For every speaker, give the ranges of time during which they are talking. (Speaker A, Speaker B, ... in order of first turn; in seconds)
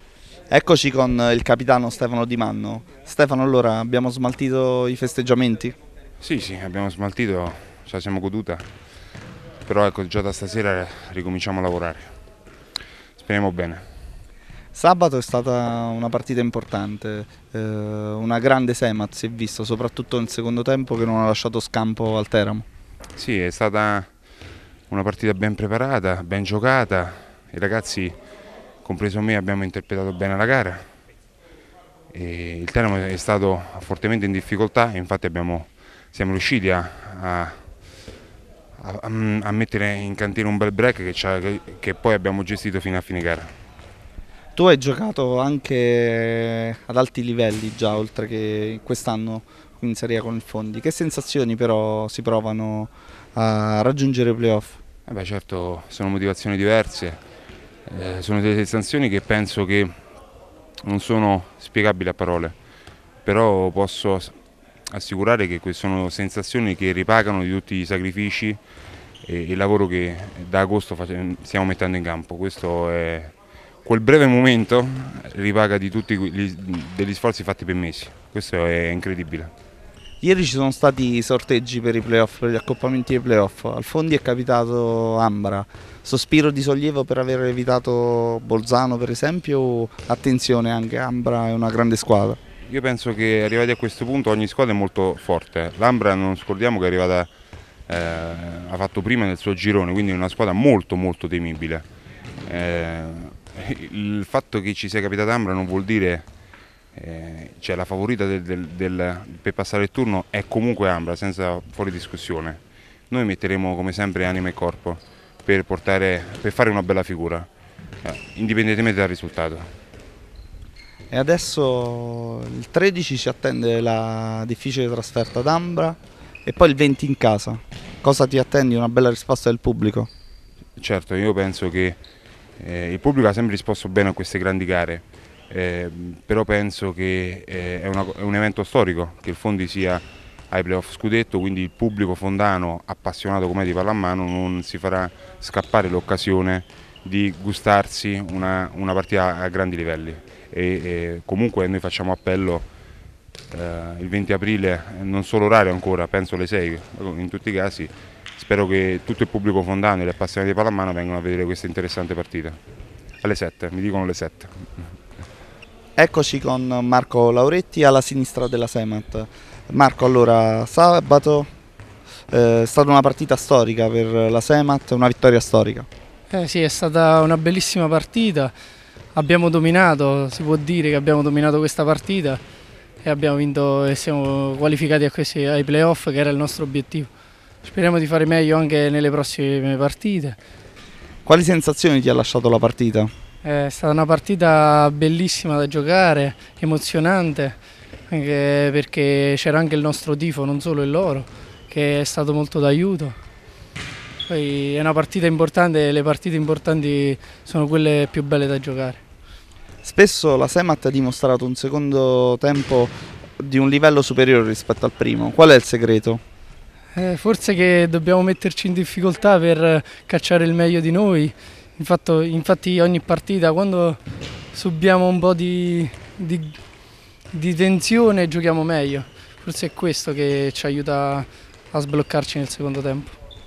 Speaker A: 0.5-5.7, 14.7-22.6, 44.5-54.8, 80.2-92.4, 121.1-130.1, 166.0-171.5, 172.3-175.9, 191.2-193.1, 209.8-216.2
Speaker B: 6.2-8.7, 9.7-12.1, 13.2-13.8, 23.2-24.1, 24.9-28.1, 28.8-30.9, 32.1-37.6, 38.8-43.5, 55.1-57.2, 57.9-59.9, 60.9-62.5, 63.2-64.3, 64.9-68.6, 69.2-79.5, 92.7-97.3, 97.9-101.8, 102.5-106.3, 106.9-117.5, 118.0-119.6, 130.8-132.0, 132.6-152.7, 153.5-162.6, 163.2-164.5
Speaker C: 176.3-178.5, 179.1-182.4, 183.0-187.1, 187.6-190.4, 193.4-197.6, 198.1-203.2, 204.3-209.0, 216.9-224.0, 224.5-226.5, 227.3-233.2